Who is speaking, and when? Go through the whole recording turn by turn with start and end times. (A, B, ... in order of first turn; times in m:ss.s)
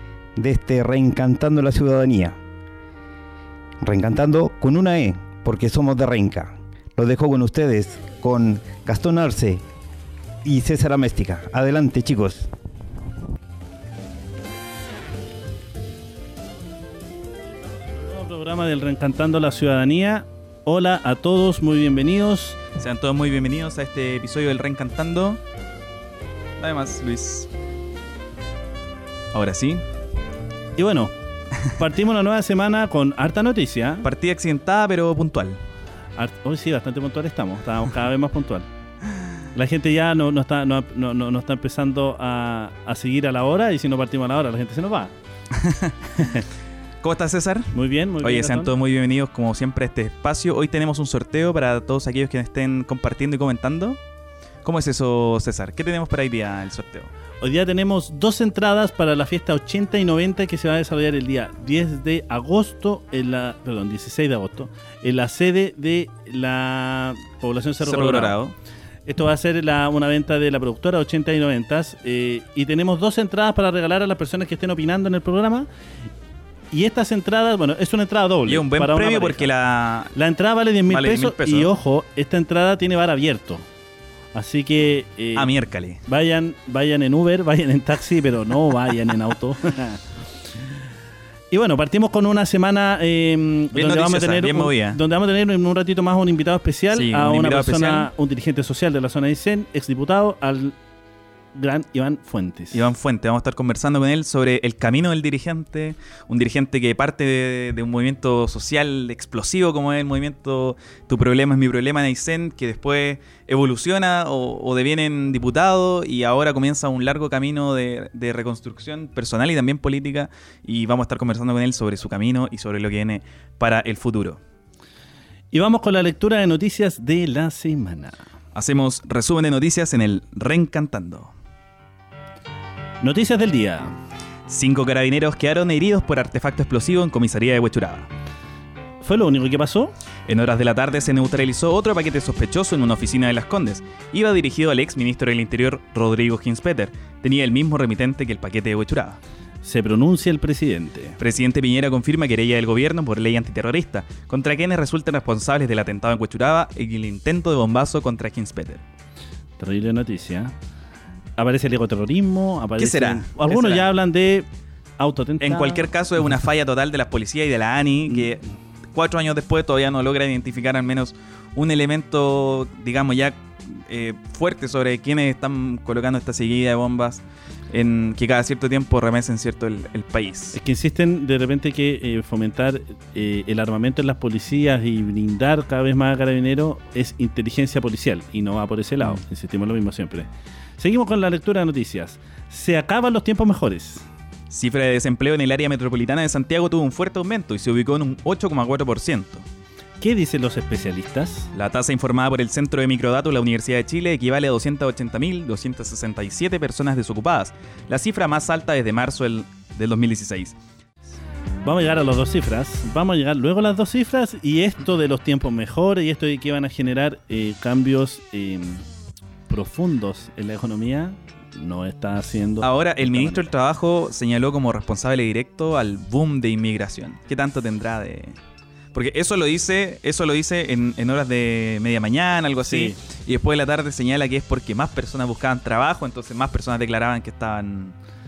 0:00.4-0:02.4 A
0:03.8-0:09.6 A
0:10.4-0:12.5 A
0:17.9-0:22.6 B
0:22.8-0:25.4 C
0:26.6-0:27.5 C
0:29.3-0:29.8 C
0:30.8-0:31.1 B
0:31.7-0:34.1 B
0:34.0-0:35.6 C
0:36.2-0:38.7 B
0:39.5-0:45.1 B
0:45.6-0:46.2 C
0:46.2-0:46.4 B
0:47.0-0:54.0 C
0:47.7-0:48.7 B
0:54.6-0:57.1 C
0:57.4-1:08.4 B
1:07.8-1:08.6 C
1:09.1-1:15.7 B
1:16.7-1:19.5 B
1:18.5-1:20.2 C
1:20.2-1:23.7 B
1:20.9-1:21.7 C
1:24.3-1:25.5 B
1:25.4-1:26.0 C
1:26.1-1:30.1 B
1:31.5-1:40.8 B
1:33.7-1:35.0 C
1:36.9-1:38.1 C
1:41.5-1:42.9 B
1:42.7-2:04.4 C
2:05.5-2:08.2 B
2:08.6-2:11.3 C
2:13.0-2:13.9 B
2:14.5-2:18.1 C
2:19.0-2:19.9 B
2:20.3-2:29.2 C
2:29.6-2:31.2 B
2:31.2-2:38.8 C
2:39.6-2:40.5 B
2:41.4-2:44.5 B
2:42.8-2:43.9 C
2:45.0-2:45.8 B
2:45.4-3:00.6 C
3:00.5-3:14.1 B
3:14.5-3:19.5 C
3:20.0-3:21.5 B
3:21.5-3:30.6 C
3:31.6-3:38.9 B
3:39.5-3:43.5 B
3:42.6-3:48.4 C
3:48.9-3:58.0 C
3:52.6-3:53.0 B